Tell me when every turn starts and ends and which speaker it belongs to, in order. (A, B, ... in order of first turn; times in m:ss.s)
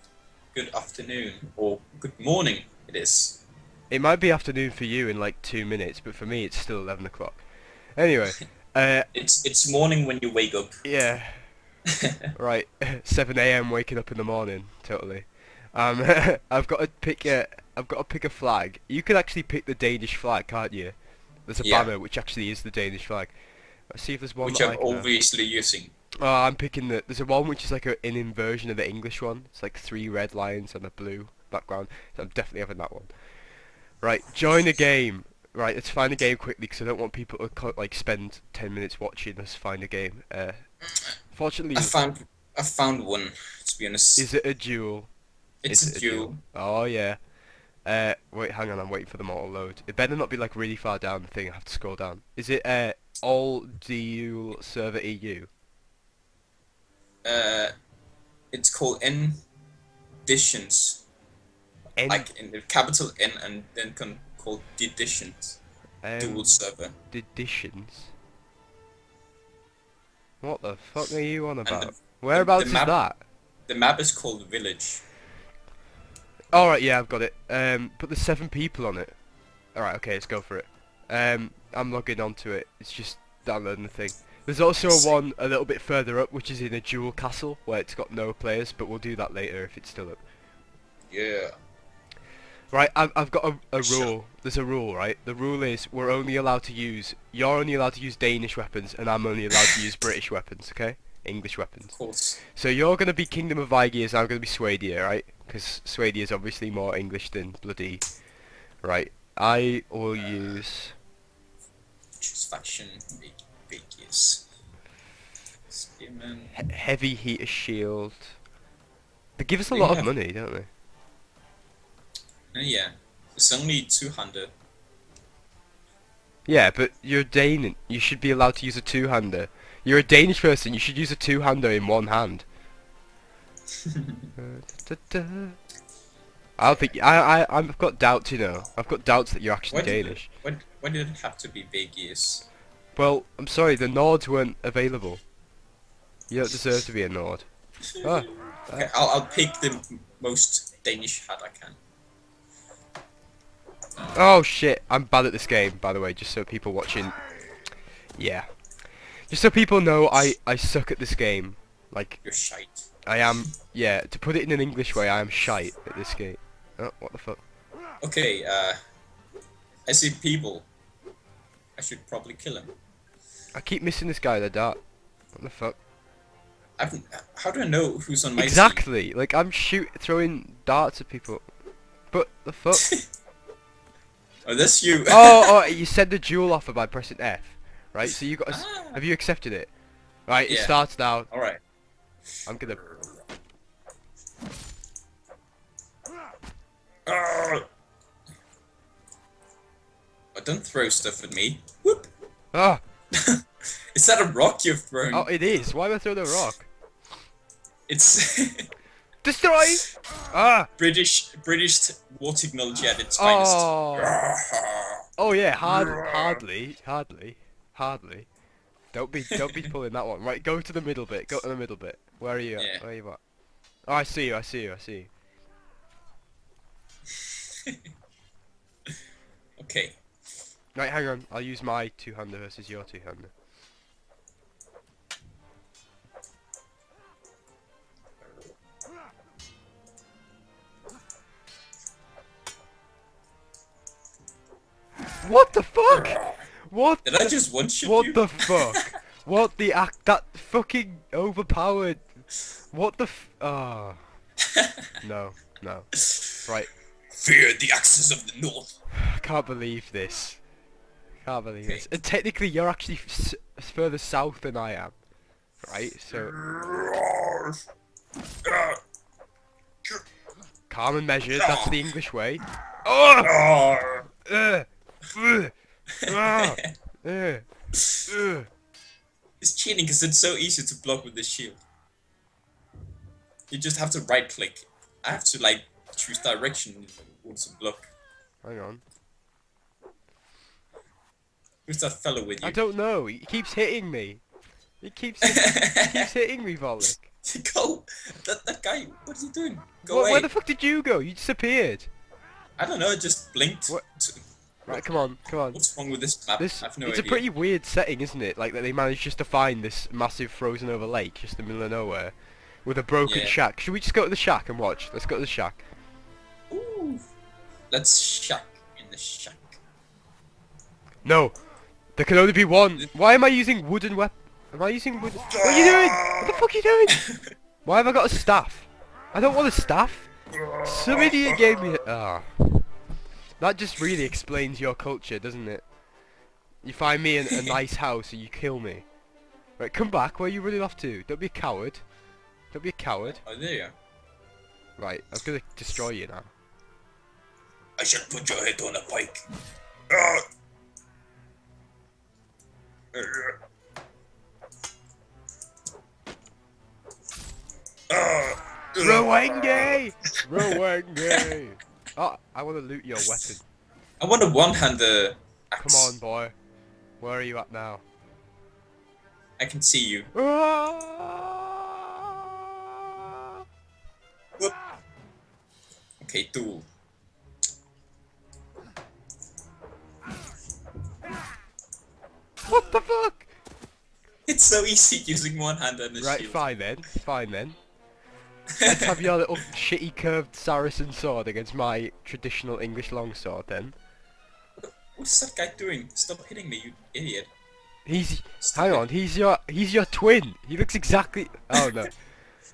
0:00.5-0:03.4 A
0:03.9-0:07.4 B
0:08.0-0:09.1 B
0:09.1-0:10.8 A
0:10.8-0:11.5 B
0:12.3-0:20.9 B
0:21.4-0:23.4 B
0:21.6-0:21.9 A
0:23.9-0:25.1 B
0:24.4-0:25.9 A
0:26.2-0:33.1 B
0:34.0-0:40.7 B
0:41.3-0:42.0 B
0:41.7-0:44.2 A
0:44.2-0:45.1 B
0:45.6-0:46.4 A
0:45.7-0:47.2 B
0:47.8-0:55.5 B
0:57.2-0:57.7 A
0:58.5-0:59.4 A
1:00.2-1:01.0 A
1:02.0-1:02.3 B
1:02.1-1:05.6 A
1:06.0-1:08.1 B
1:06.2-1:06.9 A
1:10.4-1:13.2 B
1:11.6-1:13.0 A
1:13.7-1:15.0 A
1:16.5-1:19.1 B
1:19.7-1:30.2 B
1:24.8-1:25.2 A
1:31.1-1:31.5 A
1:32.7-1:42.0 B
1:33.8-1:34.1 A
1:41.9-1:42.4 A
1:42.6-1:48.0 B
1:48.8-1:50.9 B
1:52.2-1:54.5 A
1:55.7-1:56.5 A
1:56.6-1:58.3 B
1:59.4-2:00.7 B
1:59.7-2:00.1 A
2:02.5-2:04.5 A
2:06.5-2:12.4 B
2:13.8-2:14.3 A
2:14.4-2:15.6 B
2:16.6-2:20.3 B
2:19.7-2:22.4 A
2:23.0-2:25.2 B
2:26.3-2:27.5 B
2:27.9-2:31.8 A
2:28.0-2:28.9 B
2:34.1-2:37.2 B
2:38.2-2:38.5 B
2:39.3-2:42.2 B
2:42.2-2:42.9 A
2:43.0-2:47.4 B
2:48.0-2:48.8 A
2:49.9-2:50.7 A
2:51.8-2:52.7 A
2:53.5-2:54.8 B
2:55.3-2:55.8 B
2:56.8-2:58.8 A
2:58.4-3:01.5 B
3:02.1-3:02.9 B
3:02.7-3:03.0 A
3:04.4-3:05.7 A
3:05.1-3:09.7 B
3:08.5-3:09.0 A
3:10.3-3:11.3 B
3:10.5-3:10.8 A
3:11.3-3:11.6 A
3:12.5-3:12.8 B
3:12.7-3:13.2 A
3:17.0-3:17.6 A
3:20.3-3:22.1 A
3:22.5-3:22.8 B
3:23.1-3:25.3 A
3:25.1-3:26.7 B
3:27.9-3:28.7 A
3:29.2-3:30.7 B
3:30.8-3:35.0 A
3:33.2-3:34.2 B
3:35.2-3:38.3 B
3:35.6-3:36.4 A
3:38.9-3:43.2 B
3:42.6-3:42.8 A
3:43.9-3:45.1 B
3:47.2-3:47.8 A
3:49.6-3:50.0 A
3:50.8-3:53.3 B
3:58.2-3:58.5 A
4:05.2-4:14.0 B
4:05.9-4:06.4 A
4:07.0-4:08.9 A
4:14.4-4:14.9 A
4:15.0-4:16.7 B
4:17.1-4:18.7 A
4:18.9-4:20.4 B
4:21.2-4:24.9 B
4:25.6-4:26.3 B
4:26.1-4:27.6 A
4:28.4-4:28.8 A
4:30.7-4:33.4 B
4:31.4-4:31.8 A
4:33.2-4:34.1 A
4:34.2-4:35.5 B
4:35.9-4:36.7 A
4:36.1-4:37.4 B
4:38.1-4:38.5 B
4:39.4-4:41.6 A
4:43.5-4:47.9 A
4:48.4-4:48.8 B
4:51.6-4:52.6 A
4:52.4-4:54.2 B
4:54.8-4:57.1 B
4:55.2-4:56.1 A
4:57.2-5:00.3 A
4:59.8-5:01.9 B
5:02.6-5:04.8 A
5:04.6-5:05.6 B
5:05.5-5:07.2 A
5:06.4-5:12.1 B
5:12.6-5:15.6 B
5:13.0-5:13.4 A
5:16.5-5:17.0 A
5:17.7-5:19.6 A
5:21.0-5:21.4 B
5:22.0-5:27.0 B
5:25.2-5:26.3 A
5:27.0-5:27.2 A
5:27.6-5:32.6 B
5:30.5-5:31.2 A
5:33.4-5:35.6 B
5:36.6-5:38.8 B
5:37.3-5:37.5 A
5:39.6-5:41.8 B
5:42.5-5:43.2 B
5:43.2-5:43.7 A
5:44.8-5:46.3 B
5:47.8-5:49.2 A
5:49.9-5:50.2 A
5:52.9-5:53.4 A
5:57.9-5:59.7 A
5:58.8-6:03.4 B
6:04.0-6:05.9 A
6:05.6-6:06.3 B
6:07.0-6:07.8 B
6:09.4-6:10.1 A
6:10.1-6:12.3 B
6:13.0-6:13.3 B
6:16.0-6:16.7 A
6:22.4-6:23.3 B
6:24.3-6:26.4 A
6:26.0-6:27.6 B
6:28.6-6:29.1 A
6:28.6-6:33.7 B
6:34.6-6:37.3 A
6:37.8-6:42.0 B
6:38.4-6:38.8 A